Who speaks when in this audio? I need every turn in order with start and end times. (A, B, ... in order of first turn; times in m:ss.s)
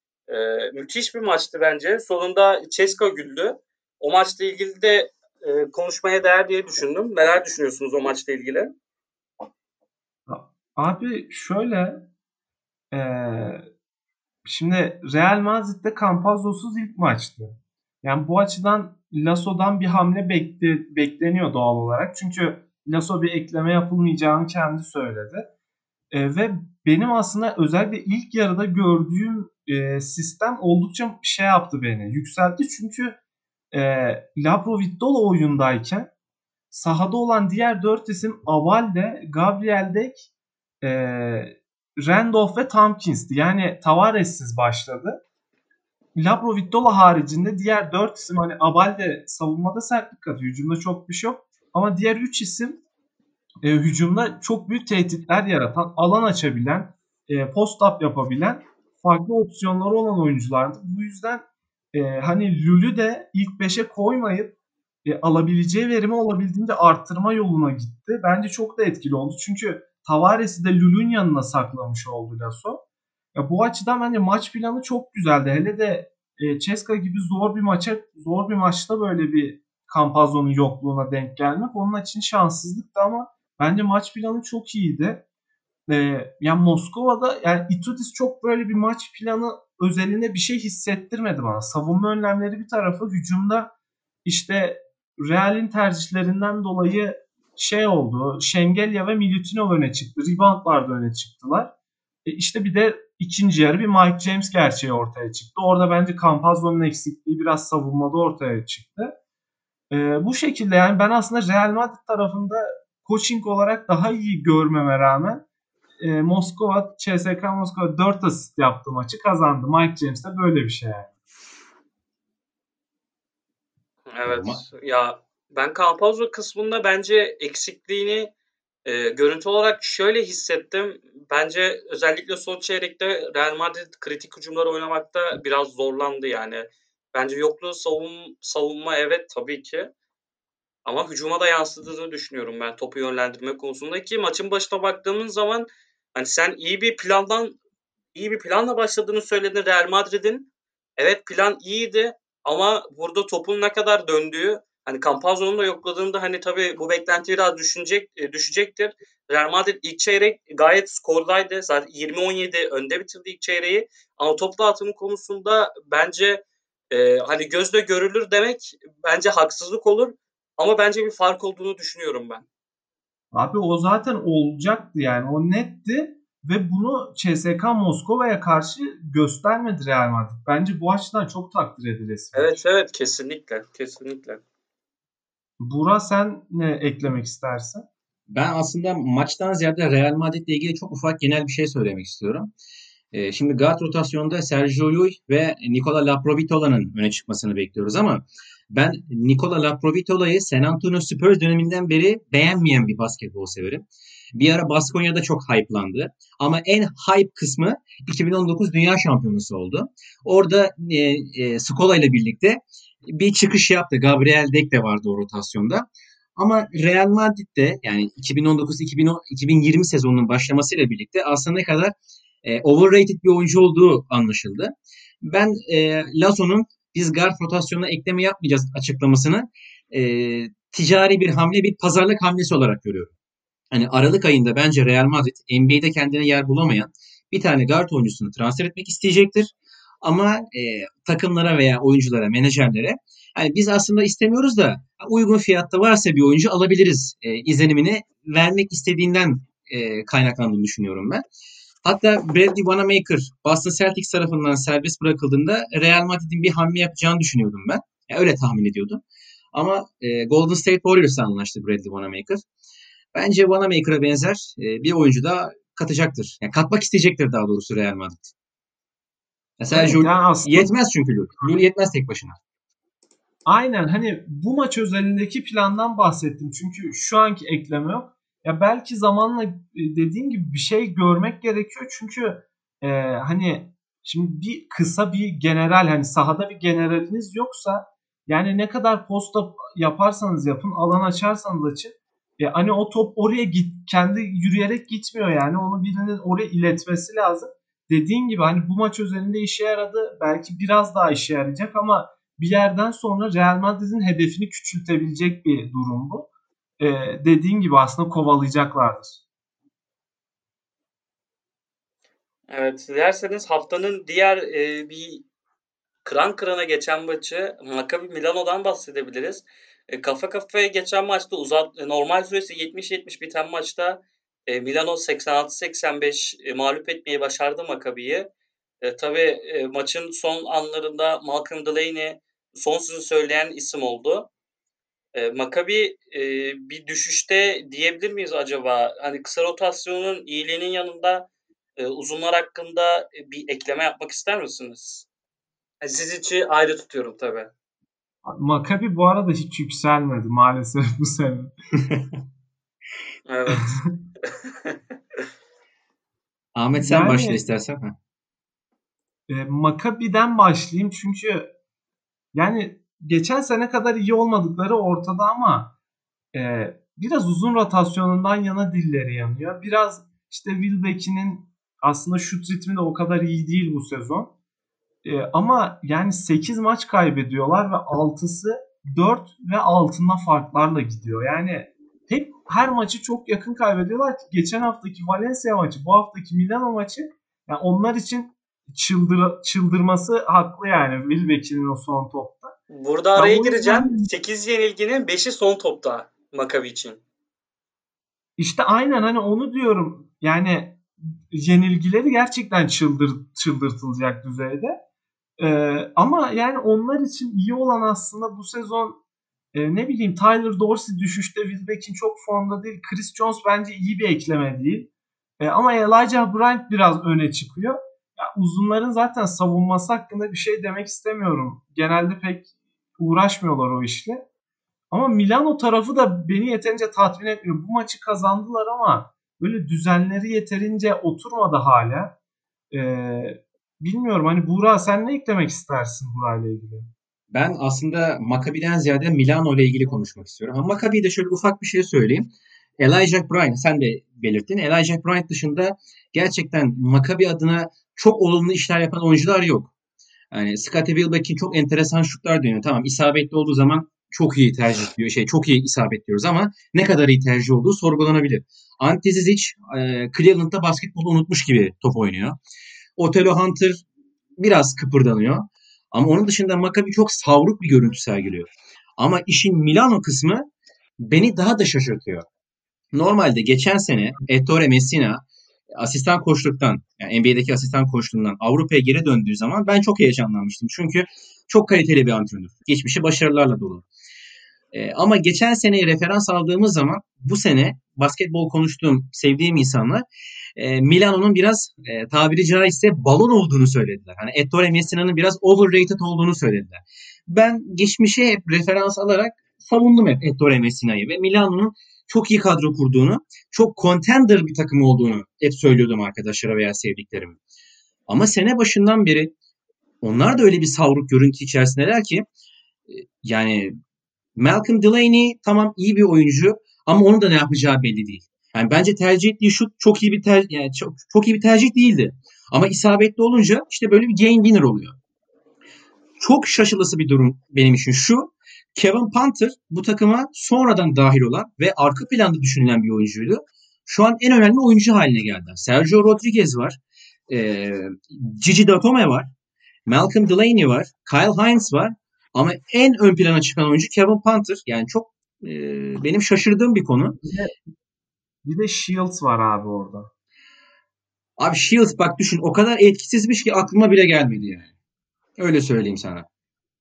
0:00.3-0:08.7 A
0:10.3-0:12.0 B
0:12.9-0:13.6 B
0:14.4-0:25.5 B
0:26.1-0:33.2 B
0:33.7-0:36.1 B
0:36.7-0:40.3 B
0:40.8-0:45.2 B
0:46.2-0:52.8 B
0:53.6-1:04.5 B
1:05.0-1:12.8 B
1:13.4-1:25.2 B
1:25.9-1:33.7 B
1:34.2-1:41.7 B
1:42.3-1:49.1 B
1:49.9-1:55.4 B
1:56.0-2:01.1 B
2:04.1-2:08.3 A
2:04.2-2:04.6 C
2:08.8-2:19.9 A
2:20.8-2:27.6 A
2:28.2-2:52.4 A
2:53.3-3:02.6 B
3:02.3-3:04.4 A
3:05.6-3:07.9 B
3:08.3-3:12.5 C
3:13.1-3:23.8 C
3:24.4-3:35.8 C
3:36.4-3:53.1 C
3:53.7-4:11.2 C
4:11.8-4:19.0 C
4:19.5-4:22.4 C
4:23.1-4:28.3 C
4:29.6-4:32.4 C
4:29.7-4:30.7 B
4:33.5-5:06.3 B
5:06.8-5:09.2 B
5:12.5-5:15.2 A
5:16.0-5:28.3 A
5:28.8-5:34.3 A
5:35.2-5:45.1 A
5:45.8-5:47.5 A
5:48.2-5:51.5 B
5:51.8-5:52.1 C
5:53.3-5:53.8 A
5:53.5-5:53.9 B
5:56.6-5:57.9 C
5:56.8-5:57.4 B
5:59.3-6:01.5 B
6:02.3-6:05.7 B
6:06.3-6:14.3 B
6:15.0-6:32.6 B
6:32.7-6:37.0 A
6:33.2-6:34.1 B
6:38.4-6:44.8 B
6:45.4-6:49.0 B
6:49.5-7:04.2 B
7:04.9-7:12.1 B
7:12.7-7:16.9 B
7:17.3-7:29.7 C
7:30.3-7:42.4 C
7:43.0-7:43.8 C
7:44.4-7:50.4 C
7:51.0-7:52.2 C
7:52.9-7:55.2 C
7:55.8-8:03.9 C
8:04.7-8:10.0 C
8:10.6-8:27.4 C
8:28.1-8:29.3 C
8:30.0-8:32.2 C
8:32.9-8:33.7 C
8:34.4-8:45.0 C
8:46.2-8:56.8 C
8:57.3-8:59.3 C
8:59.9-9:07.2 C
9:07.2-9:07.5 B
9:08.4-9:10.1 B
9:11.4-9:14.7 C
9:15.4-9:16.3 C